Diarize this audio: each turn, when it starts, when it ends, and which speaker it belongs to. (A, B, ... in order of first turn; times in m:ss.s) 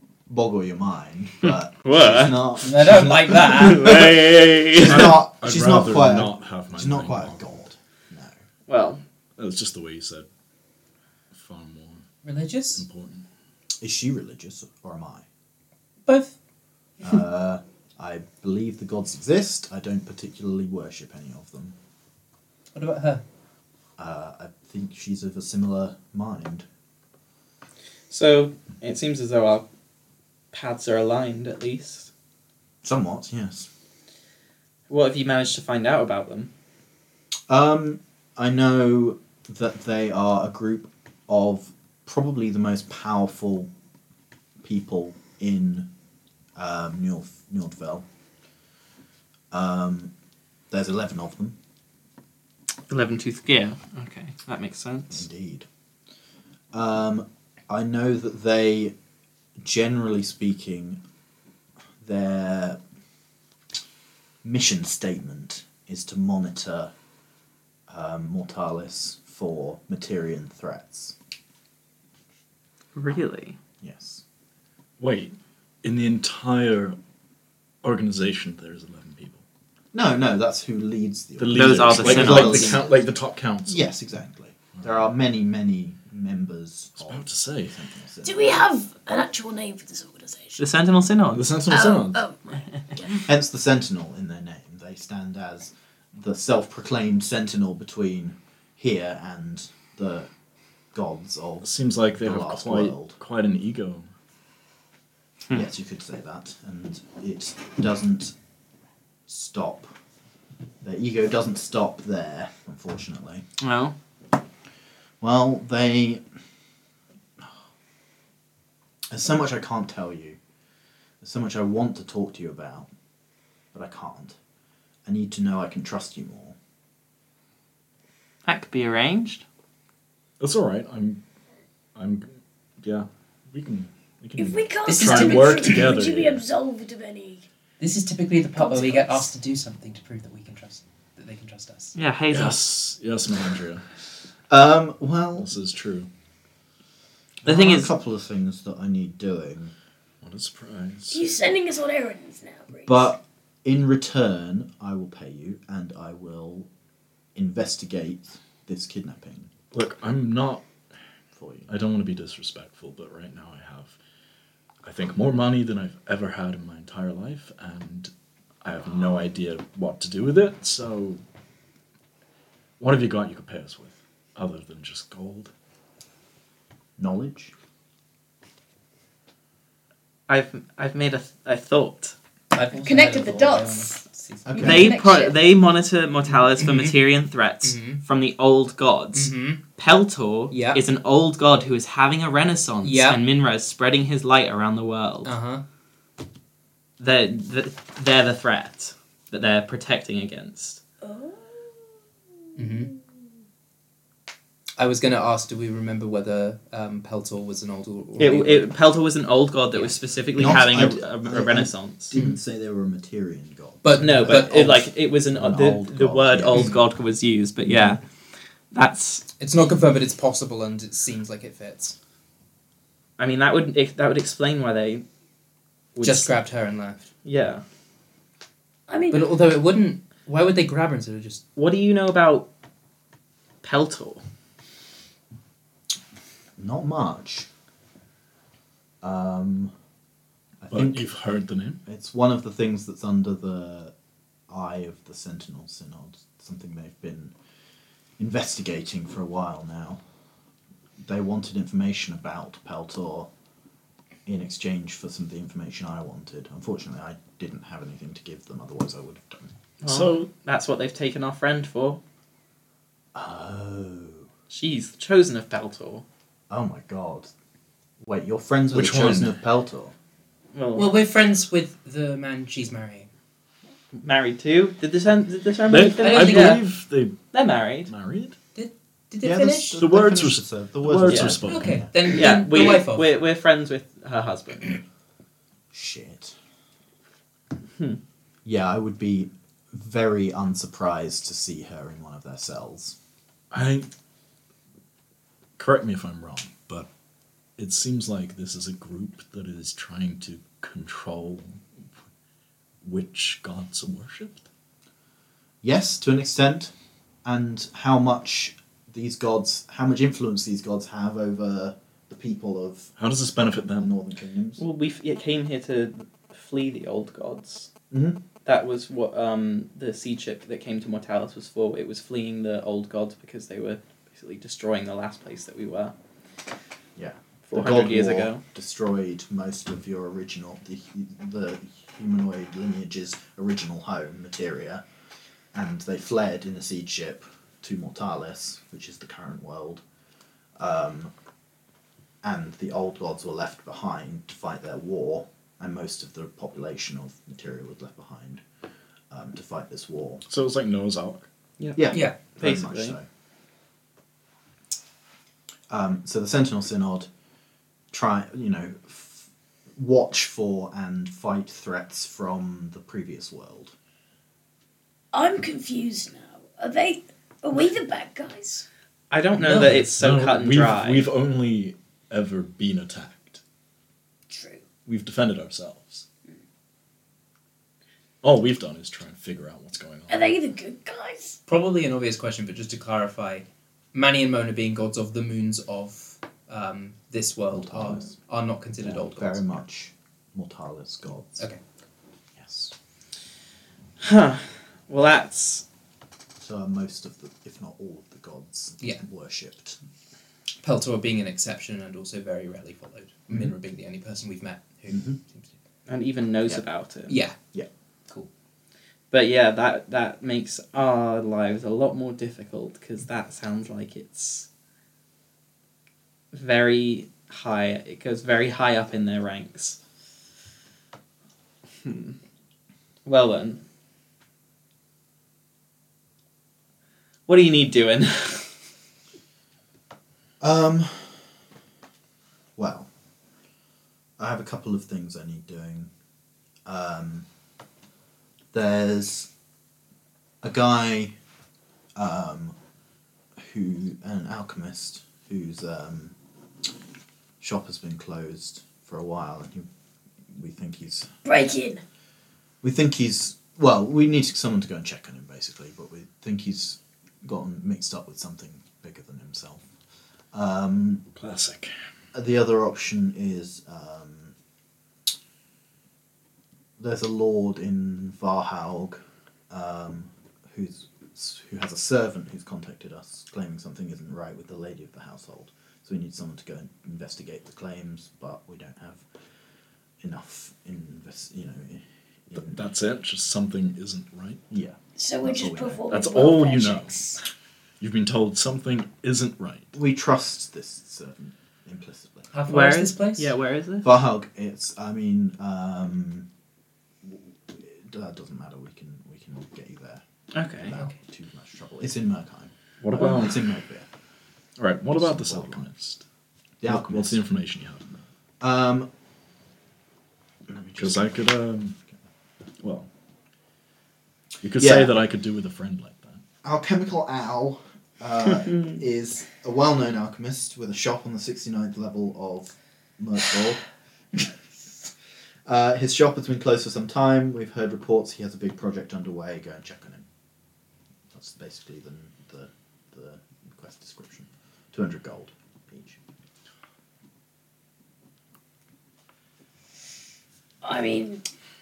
0:00.3-0:03.2 A
0:01.4-0:02.5 B
0:02.6-0:04.0 C
0:03.3-0:05.2 B
0:04.8-0:07.4 D
0:04.8-0:08.3 A
0:08.7-0:09.0 B
0:09.4-0:10.3 D
0:11.3-0:12.0 D
0:12.2-0:12.8 C
0:12.8-0:13.2 D
0:13.8-0:15.2 A
0:16.0-0:16.4 C
0:17.0-0:21.7 A
0:22.7-0:23.2 C
0:24.0-0:26.6 A
0:28.1-0:29.6 B
0:30.5-0:32.1 B
0:32.8-0:33.7 A
0:34.9-0:36.5 B
0:37.5-0:43.7 A
0:44.6-0:45.9 A
0:46.6-0:48.0 A
0:49.5-0:50.1 A
0:50.7-0:51.6 A
0:52.9-0:55.2 B
0:55.1-0:55.7 A
0:56.7-0:58.9 A
0:59.6-1:01.0 A
1:02.0-1:02.8 A
1:04.4-1:06.9 A
1:07.9-1:11.1 A
1:12.9-1:13.6 B
1:13.8-1:14.2 A
1:15.0-1:17.0 D
1:17.8-1:19.4 D
1:19.9-1:23.0 A
1:21.4-1:23.8 D
1:21.5-1:22.8 B
1:23.7-1:28.6 A
1:27.0-1:27.8 D
1:28.2-1:30.6 E
1:30.6-1:31.5 B
1:31.3-1:32.2 D
1:31.7-1:33.3 E
1:33.3-1:40.3 A
1:40.9-1:43.2 A
1:41.6-1:44.1 D
1:45.5-1:48.3 A
1:49.3-1:49.9 A
1:50.8-1:53.4 A
1:53.6-1:53.9 B
1:55.2-1:56.2 A
1:59.1-2:00.4 A
2:01.2-2:02.9 A
2:03.7-2:04.4 A
2:05.0-2:06.6 A
2:08.4-2:09.4 B
2:10.4-2:11.2 D
2:11.9-2:16.4 D
2:14.4-2:17.4 E
2:14.9-2:15.8 C
2:17.8-2:21.9 C
2:18.6-2:19.3 E
2:21.9-2:22.6 B
2:22.3-2:23.8 D
2:24.5-2:25.5 A
2:25.4-2:26.1 D
2:27.4-2:27.9 B
2:27.4-2:29.7 A
2:30.2-2:31.3 D
2:31.1-2:33.0 E
2:32.8-2:36.7 A
2:37.3-2:39.5 A
2:39.7-2:40.6 D
2:41.3-2:41.7 A
2:41.7-2:44.0 D
2:44.8-2:48.1 D
2:48.6-2:51.2 D
2:52.8-2:55.5 D
2:57.0-2:57.5 A
3:00.3-3:02.1 B
3:02.5-3:04.8 C
3:02.8-3:04.0 E
3:04.4-3:05.0 A
3:04.5-3:05.4 E
3:04.6-3:15.3 B
3:06.6-3:06.9 C
3:07.6-3:08.0 C
3:09.1-3:09.6 C
3:10.5-3:10.8 C
3:12.8-3:13.2 C
3:15.2-3:15.6 C
3:17.0-3:20.8 B
3:21.0-3:22.0 E
3:22.6-3:22.9 C
3:24.8-3:28.7 C
3:28.2-3:32.1 B
3:30.4-3:36.7 A
3:33.8-3:34.6 C
3:34.0-3:38.0 B
3:36.5-3:36.8 C
3:38.7-3:39.2 B
3:39.4-3:41.9 C
3:43.2-3:45.0 B
3:45.9-3:46.3 B
3:46.0-3:47.1 C
3:47.2-3:47.6 B
3:48.9-3:49.3 E
3:49.1-3:51.4 C
3:51.5-3:52.5 B
3:53.6-3:54.2 B
3:56.6-3:57.5 A
3:59.0-3:59.7 A
4:00.6-4:01.1 A
4:00.7-4:01.8 D
4:01.8-4:03.9 A
4:04.5-4:07.3 A
4:08.2-4:10.0 A
4:11.0-4:13.3 A
4:14.2-4:19.5 A
4:19.8-4:22.0 B
4:19.8-4:20.3 D
4:23.1-4:24.3 A
4:24.5-4:26.0 B
4:26.5-4:27.3 A
4:28.0-4:29.9 A
4:28.7-4:29.4 D
4:30.5-4:31.0 B
4:30.8-4:33.1 C
4:33.9-4:36.6 B
4:35.7-4:37.2 D
4:36.0-4:36.6 C
4:37.3-4:37.9 B
4:37.9-4:38.4 D
4:38.5-4:39.8 C
4:39.2-4:42.0 A
4:39.8-4:41.9 D
4:41.0-4:41.3 B
4:41.4-4:43.1 C
4:42.0-4:44.8 B
4:45.7-4:46.3 A
4:48.4-4:53.0 A
4:53.5-4:53.9 D
4:55.6-4:56.9 D
4:57.6-5:01.6 D
5:02.8-5:04.4 D
5:05.6-5:06.7 A
5:07.2-5:12.9 A
5:13.0-5:13.9 D
5:13.7-5:14.6 A
5:14.6-5:17.7 B
5:17.9-5:18.2 A
5:18.4-5:25.9 B
5:27.0-5:34.8 A
5:27.5-5:28.4 B
5:35.5-5:39.8 A
5:40.6-5:41.1 A
5:42.2-5:48.4 A
5:49.1-5:50.2 A
5:50.3-5:51.3 D
5:51.6-5:53.0 B
5:51.8-5:53.0 A
5:55.7-5:57.1 A
5:57.9-6:03.7 A
6:05.1-6:08.6 E
6:09.1-6:11.1 B
6:09.4-6:09.8 C
6:09.6-6:13.4 D
6:14.3-6:14.6 E
6:14.8-6:16.0 D
6:18.2-6:20.3 D
6:20.1-6:21.4 E
6:21.5-6:29.6 C
6:27.5-6:28.1 A
6:28.8-6:31.4 A
6:32.4-6:32.7 A
6:34.0-6:35.6 B
6:36.4-6:39.8 A
6:40.6-6:45.5 C
6:44.9-6:45.2 A
6:45.9-6:47.1 B
6:47.1-6:47.4 C
6:49.1-6:54.5 B
6:56.3-6:59.8 B
7:01.8-7:02.1 B
7:03.0-7:03.6 B
7:07.3-7:08.5 B
7:10.4-7:11.3 A
7:12.6-7:12.9 A
7:14.2-7:15.9 A
7:16.6-7:17.2 A
7:18.5-7:19.3 A
7:20.4-7:21.1 A
7:21.9-7:22.5 A
7:23.4-7:26.1 A
7:27.4-7:29.7 A
7:30.3-7:31.1 A
7:31.2-7:31.8 E
7:32.6-7:39.6 A
7:40.3-7:41.0 A
7:41.1-7:41.7 D
7:42.1-7:44.3 A
7:46.8-7:59.0 A
8:00.0-8:02.6 A
8:02.4-8:04.4 D
8:04.5-8:05.8 A
8:05.0-8:07.2 E
8:05.9-8:07.0 D
8:07.8-8:09.7 D
8:09.7-8:12.3 A
8:12.3-8:13.3 C
8:12.5-8:14.0 B
8:13.8-8:16.2 A
8:17.0-8:20.0 A
8:20.3-8:20.7 B
8:20.6-8:23.9 A
8:22.8-8:23.4 D
8:24.6-8:26.0 D
8:25.0-8:25.7 A
8:26.6-8:27.2 A
8:26.6-8:28.0 D
8:28.4-8:28.9 A
8:30.5-8:31.2 A
8:30.8-8:31.8 D
8:32.6-8:32.9 D
8:34.4-8:36.2 D
8:34.6-8:35.0 A
8:36.4-8:43.6 A
8:45.4-8:50.0 A
8:51.1-8:56.0 A
9:00.6-9:01.2 E